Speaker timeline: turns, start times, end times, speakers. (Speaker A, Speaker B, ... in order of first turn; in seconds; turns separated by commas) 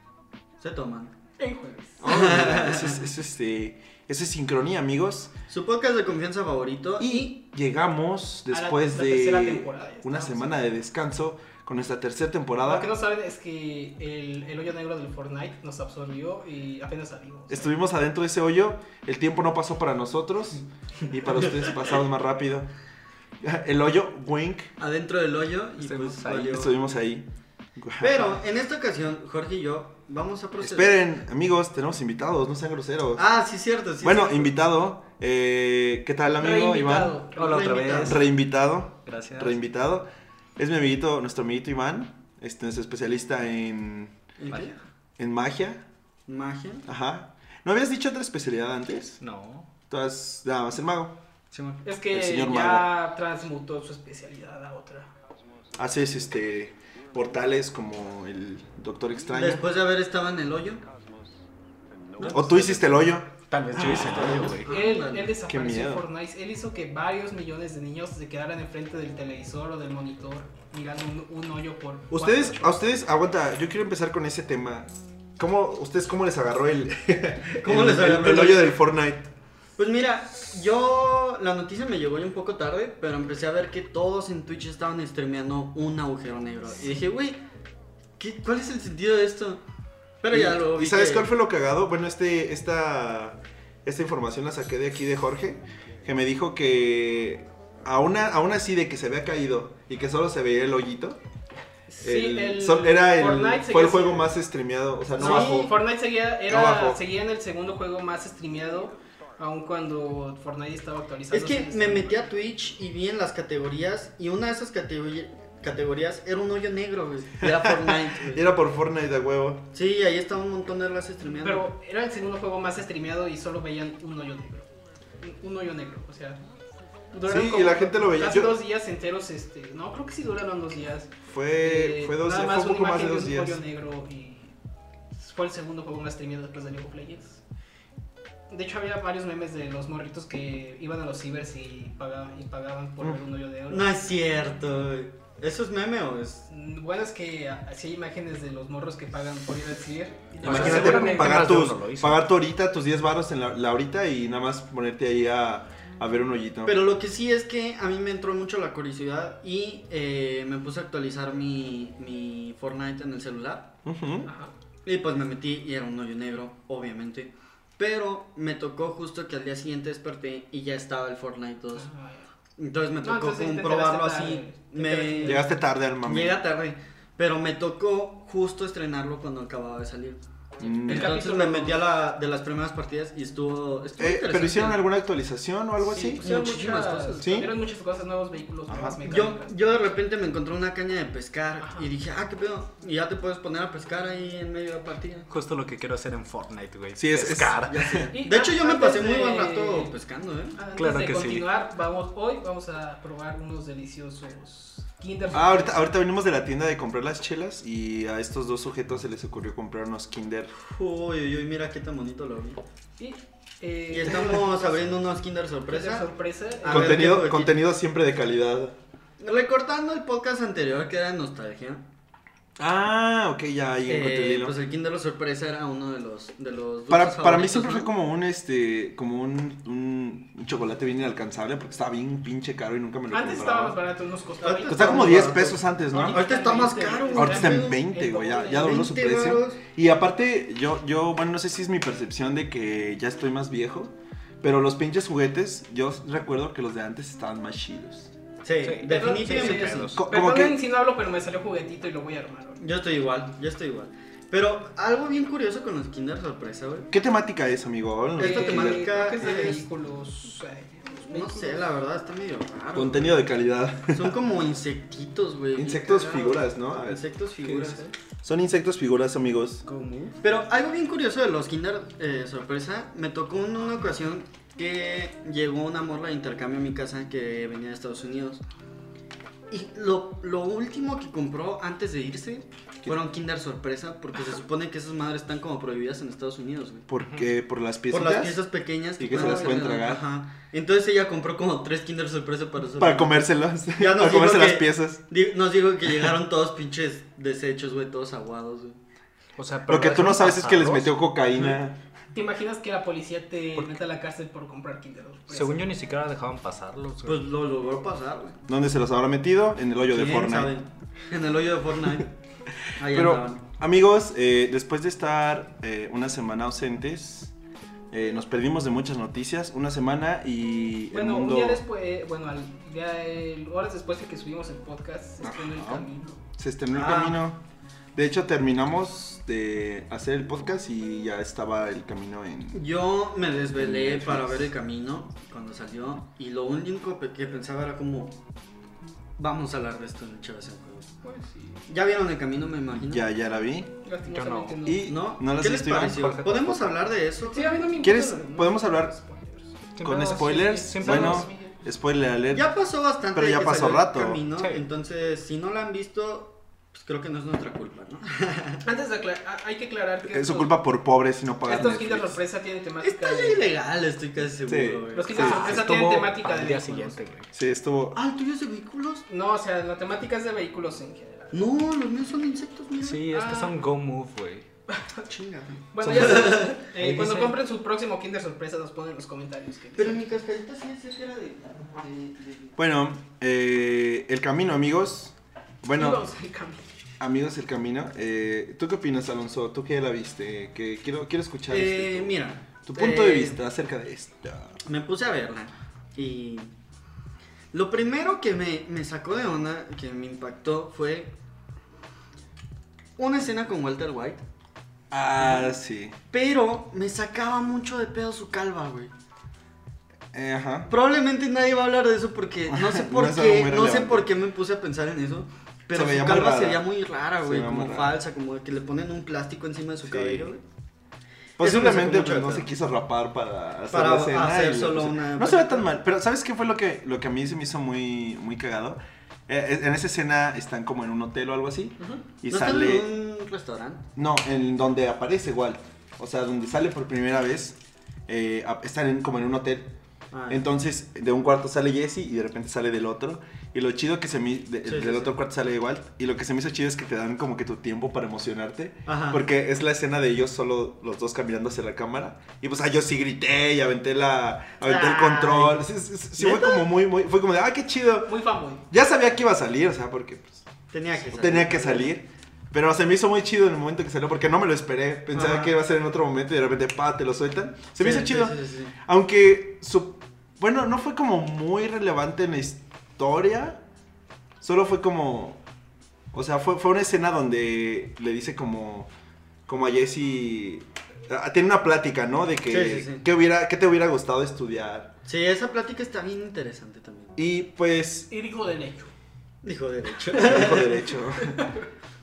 Speaker A: 0.6-1.1, Speaker B: 1.4-2.2, Speaker C: 2.0-5.3, Speaker A: 2.0-3.0, Speaker A: 5.5-7.3, Speaker C: 7.0-12.9, Speaker B: 8.5-10.6, Speaker B: 12.6-17.7, Speaker C: 17.5-22.7, Speaker C: 23.4-24.7, Speaker A: 24.8-26.7, Speaker D: 25.8-26.6, Speaker C: 26.3-28.4, Speaker A: 28.0-31.0, Speaker C: 30.6-33.2, Speaker A: 33.1-34.5, Speaker C: 34.0-37.2, Speaker B: 36.4-38.0, Speaker D: 37.3-38.3, Speaker A: 37.4-38.2, Speaker C: 37.9-44.1, Speaker D: 39.0-39.6, Speaker A: 44.4-44.8, Speaker D: 44.5-44.7, Speaker C: 45.2-45.8, Speaker A: 46.3-46.9, Speaker C: 46.9-49.2, Speaker D: 49.2-49.7, Speaker C: 49.9-51.2, Speaker A: 51.5-51.8, Speaker B: 51.8-55.1, Speaker C: 52.1-52.9, Speaker C: 55.8-59.6, Speaker A: 59.3-60.8, Speaker D: 62.2-64.8, Speaker C: 62.2-64.6, Speaker A: 64.6-65.3, Speaker B: 64.6-72.9, Speaker C: 65.4-66.1, Speaker C: 72.1-79.3, Speaker A: 77.6-78.8, Speaker A: 79.8-87.4, Speaker A: 88.2-89.6, Speaker A: 90.2-91.3, Speaker C: 90.3-101.2, Speaker B: 101.9-104.3, Speaker C: 102.0-105.8, Speaker A: 105.2-105.7, Speaker B: 105.2-112.2, Speaker C: 106.4-107.0, Speaker A: 111.3-118.4, Speaker C: 117.4-119.7, Speaker A: 119.7-121.7, Speaker B: 121.4-124.7, Speaker B: 125.2-126.4, Speaker B: 127.1-134.5, Speaker C: 127.2-128.6, Speaker C: 131.2-133.6, Speaker B: 135.1-137.4, Speaker B: 138.5-143.9, Speaker A: 143.7-146.4, Speaker B: 146.5-151.5, Speaker D: 150.4-152.3, Speaker C: 150.4-156.9, Speaker A: 156.6-163.7, Speaker C: 163.8-164.3, Speaker B: 164.2-164.5, Speaker A: 164.8-171.9, Speaker B: 171.7-172.3, Speaker A: 172.6-184.9, Speaker B: 173.0-175.5, Speaker C: 175.2-176.4, Speaker C: 180.6-181.2, Speaker B: 180.8-181.8, Speaker C: 184.0-186.2, Speaker B: 185.8-189.7, Speaker A: 186.2-187.5, Speaker C: 187.2-187.5, Speaker C: 188.7-189.0, Speaker A: 189.0-195.3, Speaker B: 191.6-191.9, Speaker D: 195.3-197.9, Speaker C: 196.9-198.1, Speaker A: 197.7-200.6, Speaker B: 198.1-199.9, Speaker B: 200.6-205.8, Speaker D: 200.8-201.5, Speaker C: 205.3-210.5, Speaker A: 210.6-212.6, Speaker B: 213.0-214.6, Speaker A: 213.9-216.1, Speaker B: 215.7-217.3, Speaker A: 216.6-217.6, Speaker C: 216.7-218.8, Speaker A: 219.2-221.8, Speaker C: 222.6-224.5, Speaker A: 223.9-227.9, Speaker C: 226.9-233.8, Speaker B: 233.1-238.8, Speaker A: 234.4-237.8, Speaker C: 234.7-236.3, Speaker C: 237.2-248.1, Speaker A: 238.5-239.6, Speaker A: 248.4-249.9, Speaker D: 248.6-250.0, Speaker B: 248.8-252.6, Speaker C: 249.9-250.6, Speaker A: 252.6-256.9, Speaker C: 256.9-258.9, Speaker B: 258.2-261.7, Speaker A: 258.2-259.6, Speaker A: 261.1-263.3, Speaker C: 262.7-264.2, Speaker A: 263.9-267.9, Speaker C: 265.5-267.0, Speaker D: 267.4-267.9, Speaker C: 268.2-269.6, Speaker D: 269.6-270.2, Speaker A: 270.2-278.4, Speaker A: 279.5-286.9, Speaker C: 286.9-288.4, Speaker A: 287.9-298.8, Speaker C: 289.0-290.0, Speaker B: 289.1-289.6, Speaker C: 292.8-295.0, Speaker D: 299.4-300.9, Speaker C: 299.7-301.8, Speaker B: 302.1-305.7, Speaker D: 305.3-307.2, Speaker A: 307.0-308.4, Speaker C: 308.5-310.5, Speaker A: 309.9-312.1, Speaker A: 312.8-313.4, Speaker C: 312.9-317.3, Speaker C: 317.9-321.6, Speaker B: 320.9-326.2, Speaker C: 325.2-327.4, Speaker A: 326.7-327.2, Speaker C: 327.9-332.6, Speaker A: 332.5-338.2, Speaker C: 333.6-334.5, Speaker A: 339.2-340.9, Speaker B: 341.0-341.6, Speaker A: 341.7-343.1, Speaker C: 342.7-343.7, Speaker B: 343.8-344.9, Speaker D: 344.1-344.7, Speaker C: 344.6-346.4, Speaker A: 344.8-347.7, Speaker D: 345.8-346.6, Speaker B: 347.3-349.6, Speaker C: 347.8-349.0, Speaker D: 349.8-351.3, Speaker C: 349.8-352.5, Speaker B: 350.1-351.5, Speaker A: 352.3-358.6, Speaker C: 353.1-354.2, Speaker D: 354.4-354.6, Speaker B: 358.6-360.5, Speaker C: 360.1-362.2, Speaker B: 361.4-363.5, Speaker A: 362.8-365.6, Speaker C: 364.5-366.1, Speaker B: 364.9-367.0, Speaker D: 365.3-367.3, Speaker C: 367.3-368.0, Speaker A: 367.9-369.1, Speaker B: 369.1-371.3, Speaker A: 371.3-373.0, Speaker D: 372.8-374.5, Speaker B: 373.1-373.5, Speaker B: 374.8-375.1, Speaker A: 375.1-376.6, Speaker B: 375.7-380.1, Speaker C: 375.8-376.4, Speaker D: 376.1-377.4, Speaker A: 379.8-382.5, Speaker C: 382.6-386.1, Speaker B: 385.8-386.6, Speaker C: 387.0-394.5, Speaker A: 391.5-393.4, Speaker A: 394.6-396.5, Speaker A: 397.5-401.1, Speaker A: 403.0-404.2, Speaker C: 404.9-406.0, Speaker A: 405.2-405.5, Speaker A: 406.1-408.9, Speaker C: 410.1-410.7, Speaker A: 410.7-420.4, Speaker C: 412.5-414.1, Speaker C: 415.7-416.7, Speaker C: 417.2-418.0, Speaker C: 419.8-420.3, Speaker A: 421.4-422.5, Speaker C: 421.4-432.9, Speaker A: 423.7-425.7, Speaker A: 432.3-433.8, Speaker C: 433.9-439.7, Speaker A: 440.1-440.4, Speaker C: 440.3-458.2, Speaker A: 444.6-445.1, Speaker A: 448.9-449.2, Speaker A: 454.6-455.6, Speaker A: 456.2-456.6, Speaker B: 458.1-458.6, Speaker C: 458.7-460.4, Speaker A: 460.7-461.9, Speaker C: 461.0-473.6, Speaker A: 465.1-465.5, Speaker A: 467.8-468.7, Speaker C: 474.4-475.4, Speaker C: 476.1-478.9, Speaker C: 479.5-484.9, Speaker A: 482.5-483.0, Speaker A: 485.0-487.2, Speaker C: 487.1-488.1, Speaker B: 488.1-488.9, Speaker A: 489.4-490.9, Speaker C: 490.0-491.4, Speaker B: 491.2-491.5